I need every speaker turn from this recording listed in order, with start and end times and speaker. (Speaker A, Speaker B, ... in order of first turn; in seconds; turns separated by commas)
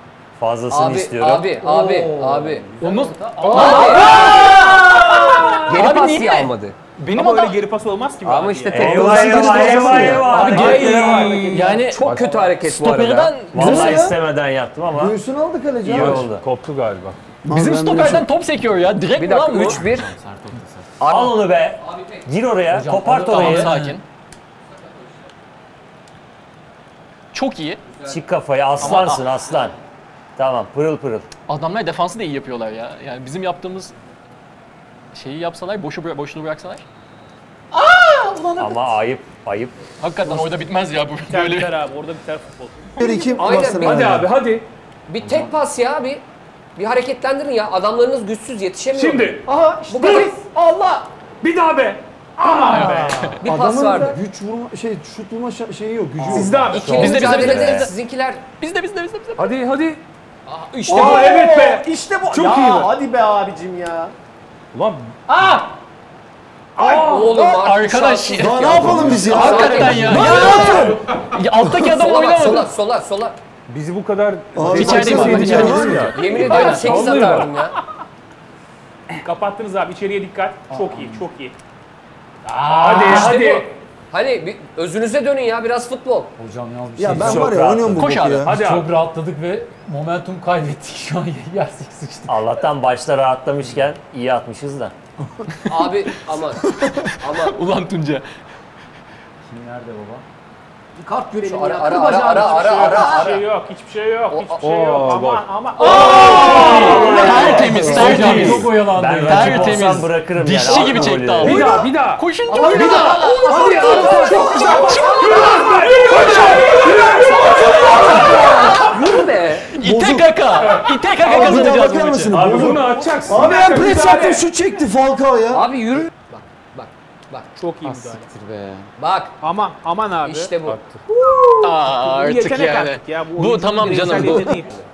Speaker A: 0.4-1.6, Speaker B: 0.7-2.7, Speaker C: 1.5-4.7, Speaker D: 2.8-6.5, Speaker B: 3.4-4.5, Speaker E: 3.6-4.7, Speaker F: 4.3-4.5, Speaker B: 5.6-7.5, Speaker E: 7.0-11.8, Speaker B: 8.2-14.0, Speaker A: 8.7-11.6, Speaker G: 8.7-10.3, Speaker F: 9.3-11.1, Speaker D: 10.2-12.1, Speaker F: 12.0-12.4, Speaker D: 12.6-14.1, Speaker A: 13.5-15.2, Speaker G: 13.6-14.2, Speaker G: 14.9-16.3, Speaker A: 15.8-16.4, Speaker F: 15.8-17.2, Speaker G: 17.4-18.3, Speaker D: 17.5-19.9, Speaker B: 19.2-20.1, Speaker C: 19.9-20.9, Speaker B: 21.0-22.3, Speaker A: 21.0-23.8, Speaker C: 22.7-24.0, Speaker D: 23.2-24.0, Speaker D: 27.3-27.8, Speaker A: 28.1-29.7, Speaker D: 28.8-29.2, Speaker A: 30.4-31.3, Speaker D: 31.5-33.9, Speaker D: 35.1-36.8, Speaker D: 37.7-38.8, Speaker A: 38.5-39.8, Speaker D: 40.0-41.7, Speaker E: 41.2-43.3, Speaker G: 43.0-44.3, Speaker B: 43.0-44.3, Speaker F: 43.5-44.7, Speaker B: 45.1-46.2, Speaker C: 45.2-45.5, Speaker B: 46.8-50.3, Speaker F: 48.9-50.3, Speaker H: 49.4-51.1, Speaker F: 51.4-53.3, Speaker E: 52.4-53.4, Speaker D: 52.7-53.4, Speaker B: 53.4-54.2, Speaker G: 53.4-56.8, Speaker E: 56.3-57.0, Speaker F: 56.3-57.1, Speaker B: 56.4-58.4, Speaker D: 56.9-57.9, Speaker A: 57.2-57.9, Speaker D: 58.6-59.5, Speaker F: 59.4-60.0, Speaker B: 60.5-61.0, Speaker H: 60.8-64.1, Speaker F: 60.9-62.9, Speaker E: 60.9-61.3, Speaker F: 64.7-65.1, Speaker C: 65.3-65.7, Speaker F: 66.8-67.5, Speaker B: 66.8-70.9, Speaker D: 67.3-72.7, Speaker G: 68.3-71.0, Speaker F: 69.9-71.0, Speaker B: 71.7-73.4, Speaker F: 73.7-77.5, Speaker G: 74.5-76.2, Speaker D: 74.7-77.5, Speaker B: 75.6-77.8, Speaker E: 79.2-81.6, Speaker C: 80.7-81.2, Speaker C: 82.4-83.4, Speaker F: 82.7-83.7, Speaker B: 82.8-86.3, Speaker C: 86.4-87.7, Speaker G: 87.0-88.5, Speaker A: 87.1-88.2, Speaker D: 87.2-88.5, Speaker F: 88.4-89.0, Speaker C: 88.5-92.4, Speaker A: 92.3-94.9, Speaker D: 95.6-96.3, Speaker B: 95.7-97.6, Speaker D: 97.0-98.2, Speaker C: 99.5-100.2, Speaker H: 101.0-103.4, Speaker B: 101.3-103.4, Speaker E: 102.4-107.0, Speaker B: 104.3-104.7, Speaker F: 104.6-108.8, Speaker D: 105.8-122.3, Speaker C: 105.8-110.0, Speaker B: 106.1-107.6, Speaker A: 106.8-111.7, Speaker H: 107.1-107.4, Speaker G: 107.6-108.1, Speaker F: 111.4-118.6, Speaker H: 112.5-115.3, Speaker B: 112.9-114.5, Speaker E: 113.9-118.3, Speaker B: 116.1-116.7, Speaker B: 117.4-119.7, Speaker G: 119.7-120.6, Speaker G: 121.2-125.7, Speaker F: 121.4-124.4, Speaker E: 122.6-124.4, Speaker B: 125.5-127.5, Speaker E: 127.6-128.3, Speaker C: 127.8-128.9, Speaker B: 129.0-129.3, Speaker E: 129.4-130.5, Speaker B: 130.2-130.8, Speaker F: 130.6-131.0, Speaker E: 131.1-134.8, Speaker D: 131.6-134.7, Speaker B: 134.4-134.7